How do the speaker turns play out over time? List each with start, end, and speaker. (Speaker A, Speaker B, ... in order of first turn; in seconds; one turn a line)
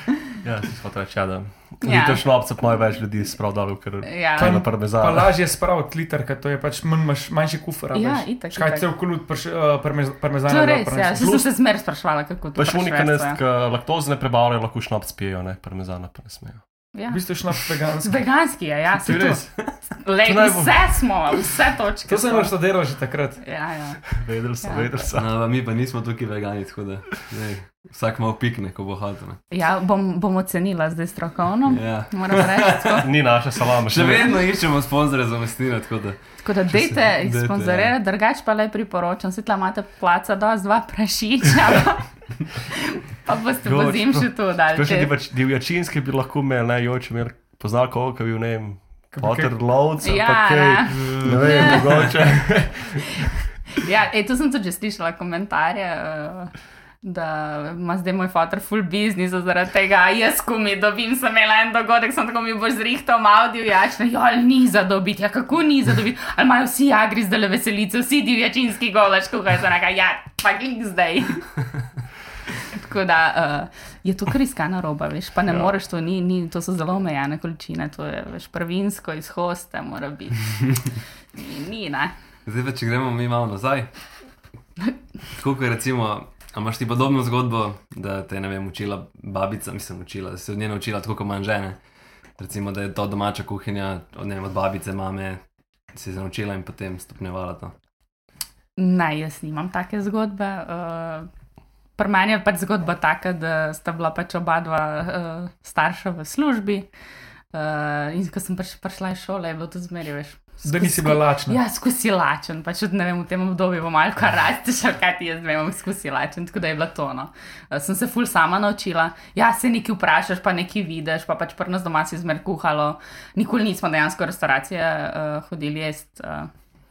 Speaker A: 0.4-5.3
Speaker B: 1.8-2.2
Speaker B: 4.0-4.6
Speaker C: 4.4-11.2
Speaker B: 7.9-8.9
Speaker B: 10.5-13.4
Speaker A: 11.2-11.5
Speaker A: 12.6-16.7
Speaker B: 16.9-17.2
Speaker C: 17.1-18.2
Speaker B: 18.0-22.6
Speaker A: 19.0-19.7
Speaker C: 19.1-19.4
Speaker A: 20.2-21.0
Speaker C: 22.1-23.4
Speaker B: 23.4-24.9
Speaker A: 24.1-25.3
Speaker D: 25.1-29.4
Speaker B: 29.5-33.1
Speaker D: 31.7-33.0
Speaker A: 33.0-34.3
Speaker D: 33.9-37.9
Speaker B: 36.4-45.1
Speaker A: 43.6-53.2
Speaker C: 49.1-49.6
Speaker B: 50.0-52.1
Speaker D: 50.9-52.1
Speaker B: 53.8-71.6
Speaker B: 72.7-80.7
Speaker B: 81.3-82.1
Speaker D: 82.5-84.2
Speaker D: 85.3-91.8
Speaker D: 92.3-95.4
Speaker D: 95.9-97.7
Speaker B: 98.8-101.3
Speaker B: 102.0-106.8
Speaker B: 107.5-126.5
Speaker C: 110.6-111.6